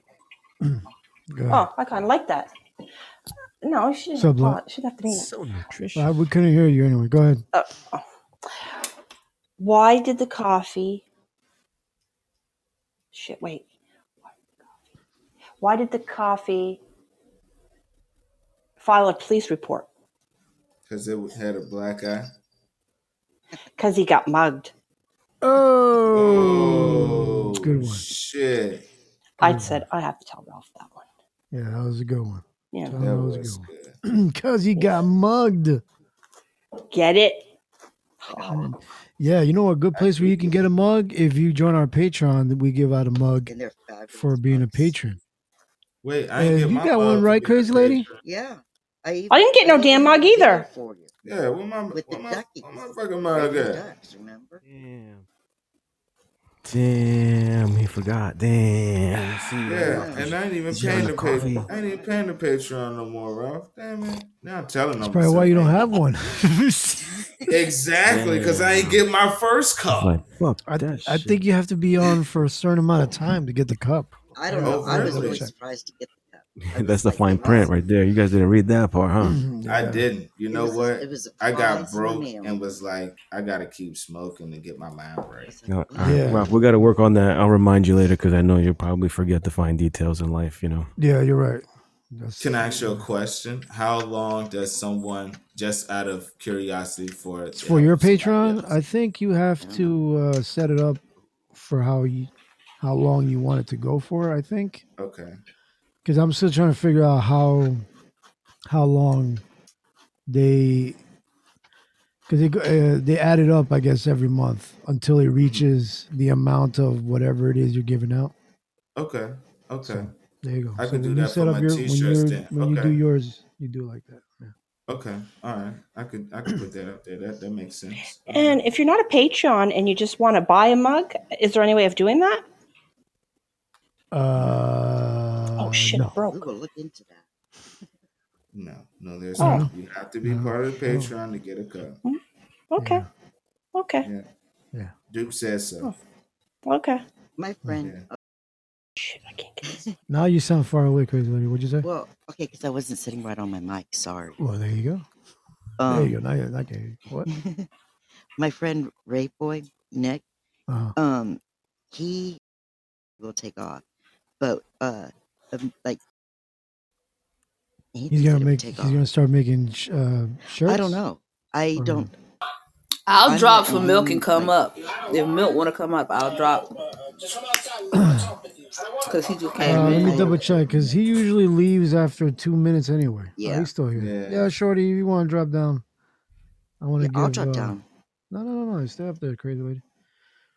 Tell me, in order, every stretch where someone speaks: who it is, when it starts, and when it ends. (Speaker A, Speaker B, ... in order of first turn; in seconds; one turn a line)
Speaker A: 0.6-1.7
Speaker B: 1.5-2.5
Speaker B: 3.6-5.3
Speaker A: 4.2-4.6
Speaker C: 5.1-6.0
Speaker A: 6.0-7.4
Speaker B: 7.5-8.0
Speaker B: 9.6-11.0
Speaker B: 13.1-13.7
Speaker B: 15.6-16.8
Speaker B: 18.8-19.9
Speaker D: 20.9-22.3
Speaker B: 23.8-24.7
Speaker A: 25.4-28.1
Speaker D: 26.1-28.9
Speaker B: 29.4-31.1
Speaker A: 29.4-29.9
Speaker A: 31.5-35.8
Speaker B: 32.7-33.0
Speaker D: 33.0-34.0
Speaker B: 36.9-37.5
Speaker B: 38.2-38.7
Speaker A: 38.4-43.5
Speaker D: 39.9-40.6
Speaker E: 43.5-44.9
Speaker A: 44.1-45.2
Speaker D: 46.0-48.2
Speaker A: 46.4-48.1
Speaker E: 48.2-51.1
Speaker B: 49.3-50.7
Speaker D: 51.2-53.8
Speaker E: 51.9-52.8
Speaker E: 53.3-54.6
Speaker C: 54.6-55.2
Speaker C: 56.6-61.7
Speaker D: 59.7-65.9
Speaker E: 59.7-62.1
Speaker A: 65.0-67.2
Speaker D: 67.5-70.2
Speaker C: 68.0-69.0
Speaker C: 69.9-71.4
Speaker A: 70.7-75.5
Speaker E: 74.4-77.8
Speaker D: 74.6-75.4
Speaker C: 76.6-79.4
Speaker A: 79.2-80.1
Speaker D: 79.7-85.5
Speaker E: 80.5-82.6
Speaker E: 85.5-86.9
Speaker C: 85.7-90.9
Speaker A: 86.0-86.5
Speaker A: 91.0-93.0
Speaker D: 92.4-98.7
Speaker A: 97.5-101.0
Speaker E: 99.6-100.0
Speaker A: 101.5-104.8
Speaker D: 105.0-105.4
Speaker A: 106.0-107.9
Speaker A: 108.7-109.4
Speaker A: 110.3-111.0
Speaker A: 112.3-118.3
Speaker D: 115.4-115.7
Speaker D: 119.0-120.1
Speaker A: 119.8-124.5
Speaker D: 120.8-123.0
Speaker D: 124.9-128.6
Speaker B: 128.3-132.4
Speaker A: 134.1-136.2
Speaker D: 134.3-134.6
Speaker B: 135.6-136.5
Speaker E: 136.3-137.2
Speaker D: 138.5-142.0
Speaker A: 139.4-139.7
Speaker B: 139.4-139.7
Speaker A: 140.2-141.1
Speaker B: 142.7-143.1
Speaker A: 142.8-143.1
Speaker B: 143.8-144.1
Speaker D: 145.1-145.9
Speaker B: 146.7-147.0
Speaker E: 147.4-148.2
Speaker B: 149.0-149.7
Speaker E: 149.7-149.9
Speaker A: 150.1-151.9
Speaker E: 151.8-154.4
Speaker A: 154.4-155.1
Speaker E: 155.8-156.2
Speaker A: 155.9-157.3
Speaker E: 157.3-157.7
Speaker E: 158.4-160.2
Speaker A: 160.7-160.9
Speaker E: 161.0-161.4
Speaker E: 161.9-162.4
Speaker E: 163.2-163.8
Speaker E: 164.4-166.0
Speaker E: 167.9-169.0
Speaker A: 168.1-171.0
Speaker E: 170.7-172.1
Speaker A: 171.8-172.1
Speaker F: 173.1-176.7
Speaker E: 173.2-174.6
Speaker A: 177.9-178.3
Speaker F: 179.0-180.4
Speaker A: 179.6-185.8
Speaker E: 179.7-180.9
Speaker E: 183.4-183.7
Speaker D: 183.9-184.5
Speaker A: 186.8-187.8
Speaker E: 187.0-187.8
Speaker A: 188.3-189.8